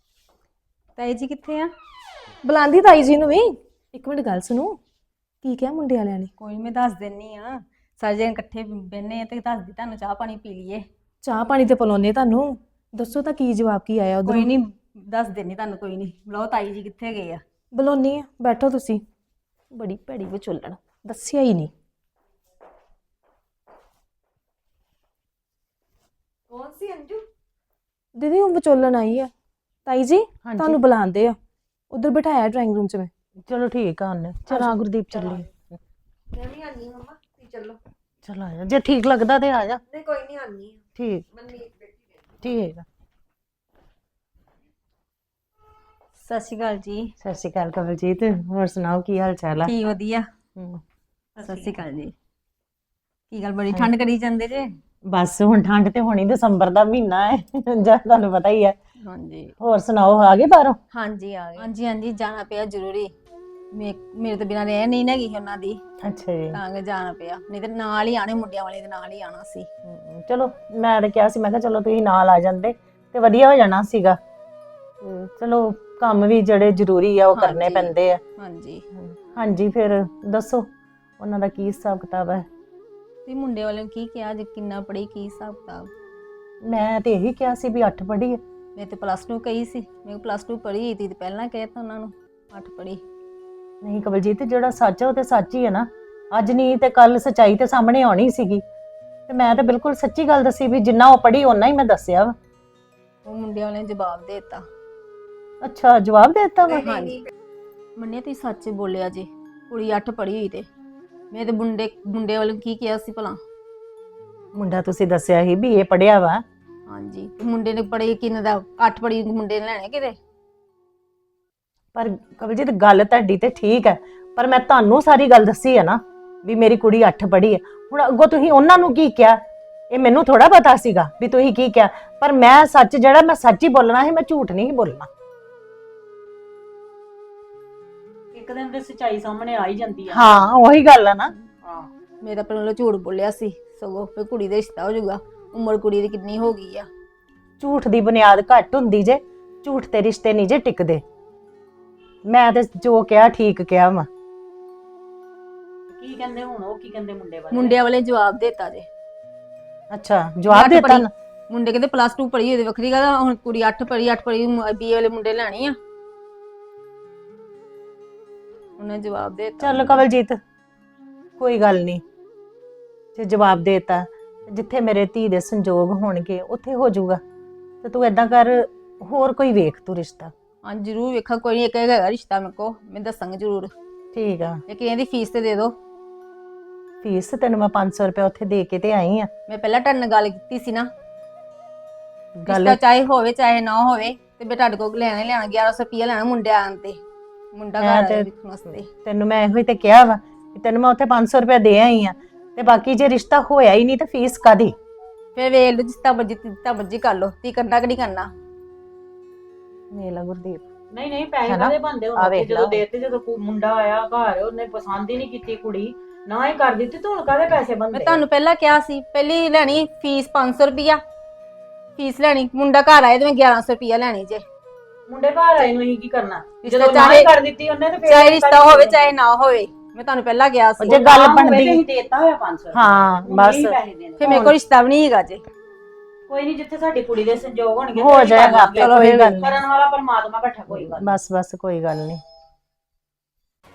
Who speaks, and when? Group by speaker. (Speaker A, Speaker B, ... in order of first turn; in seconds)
Speaker A: 0.9-1.7, 6.4-10.9, 14.2-17.4, 46.2-47.1, 49.6-50.3, 51.4-52.1, 53.3-54.8, 59.0-59.5, 60.9-63.1, 63.7-65.8, 66.5-69.7, 77.3-78.8, 83.2-85.9, 88.8-93.0, 103.2-104.7, 106.8-107.2, 108.0-110.7, 111.3-113.4, 116.9-120.2, 142.2-146.9, 157.5-158.9, 160.5-165.8, 168.8-170.0, 180.6-183.7, 184.7-185.8, 189.5-190.9, 192.5-197.0, 197.5-198.9, 205.3-208.3, 217.9-221.0, 221.9-224.4, 226.6-227.3, 228.0-231.0, 234.2-235.4, 238.8-239.5
Speaker B: 2.4-4.8, 5.4-6.3, 11.2-14.5, 17.7-19.0, 19.7-21.7, 28.2-29.3, 29.9-31.4, 31.9-33.1
Speaker C: 26.5-27.2, 34.7-35.5, 36.3-37.8, 39.9-42.4, 106.6-107.3
Speaker D: 30.4-30.8, 33.5-35.8, 38.2-39.8, 41.0-41.3, 42.4-42.8, 47.2-49.7, 50.5-50.8, 55.1-58.8, 59.6-60.8, 66.0-66.6, 69.8-74.2, 75.0-78.2, 79.0-80.7, 81.2-82.5, 86.6-88.4, 93.8-98.6, 99.3-102.3, 105.6-106.8, 114.5-116.4, 121.9-129.4, 129.9-135.1, 140.1-141.3, 147.6-151.0, 152.3-154.1, 159.9-161.1, 169.6-170.4, 171.4-172.0, 173.2-177.2, 177.8-180.3, 184.1-184.6, 187.0-189.3, 192.4-192.8, 197.8-198.3, 199.0-204.7, 209.9-210.6, 211.4-212.8, 230.8-231.8, 232.7-234.6, 237.9-239.6, 240.7-242.2
Speaker E: 138.3-140.3, 141.6-141.9, 155.9-157.8, 210.9-218.2, 225.1-229.1, 230.8-234.4, 236.3-241.1